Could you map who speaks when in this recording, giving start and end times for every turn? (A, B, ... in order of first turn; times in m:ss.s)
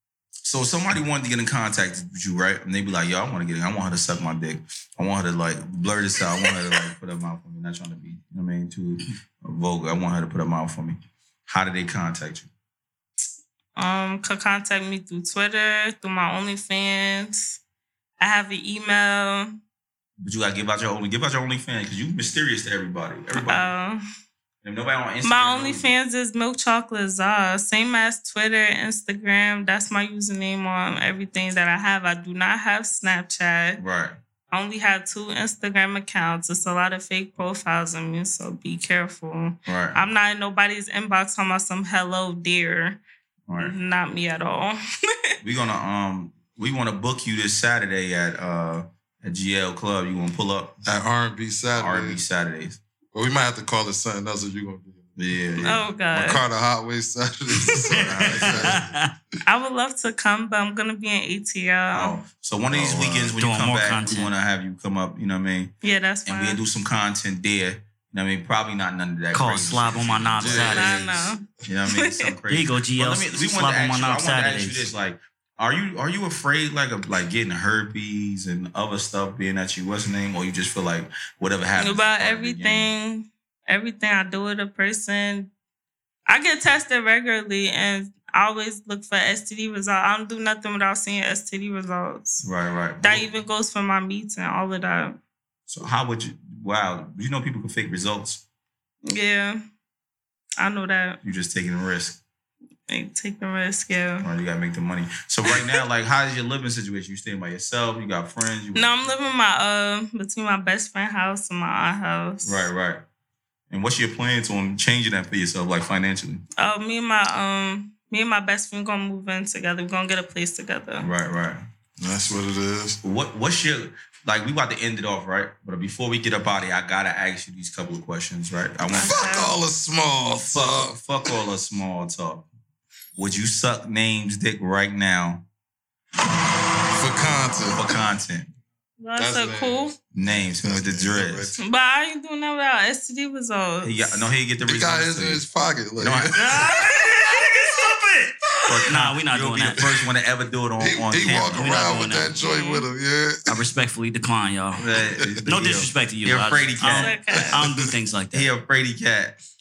0:00.4-0:12.5 A
0:13.8-0:17.6 B
0:18.2-0:19.6 B
0:20.2-0:23.7 A
0:23.3-0:24.0 B
0:24.6-0:25.9 A
0:25.2-0:33.8 B
0:33.8-0:34.2 A
0:34.5-0:43.0 B
0:39.6-0:40.0 A
0:43.5-0:43.7 A
0:43.6-0:44.8 B
0:45.4-0:50.8 A
0:50.8-0:52.2 C
0:51.8-0:52.8 A
0:53.1-0:59.0 C
0:55.2-0:55.8 A
0:55.6-0:56.4 B
0:57.9-0:59.0 D
0:58.0-0:58.8 A
0:59.4-1:02.2 B
1:01.9-1:05.7 A
1:02.7-1:03.3 C
1:03.1-1:04.3 D
1:05.8-1:06.6 B
1:06.2-1:10.9 A
1:09.3-1:11.0 D
1:10.4-1:11.4 C
1:10.7-1:12.3 B
1:11.6-1:22.9 A
1:12.5-1:14.9 D
1:21.8-1:25.5 B
1:26.3-1:32.4 B
1:32.4-1:33.3 A
1:33.0-1:35.2 B
1:35.7-1:38.4 A
1:39.0-1:39.6 B
1:40.6-1:41.2 B
1:41.2-1:42.2 A
1:42.9-1:44.3 B
1:44.2-1:49.1 A
1:45.5-1:45.8 B
1:48.7-1:52.7 B
1:52.4-1:53.0 A
1:53.7-1:56.4 A
1:56.6-2:01.1 B
2:01.0-2:01.6 A
2:02.0-2:03.0 C
2:03.0-2:09.3 A
2:08.9-2:09.5 B
2:09.0-2:11.3 C
2:10.4-2:12.4 A
2:13.2-2:15.4 A
2:16.9-2:18.0 C
2:17.7-2:18.5 A
2:19.0-2:19.9 B
2:19.2-2:21.6 C
2:20.1-2:21.6 A
2:21.6-2:24.2 B
2:23.8-2:25.4 A
2:24.6-2:26.7 C
2:26.0-2:26.3 A
2:26.3-2:30.0 D
2:28.6-2:32.0 A
2:30.8-2:33.6 C
2:31.5-2:32.4 D
2:32.2-2:32.8 B
2:33.5-2:34.8 D
2:34.8-2:37.2 A
2:35.4-2:38.5 D
2:36.9-2:37.6 B
2:37.4-2:37.9 C
2:38.3-2:39.4 A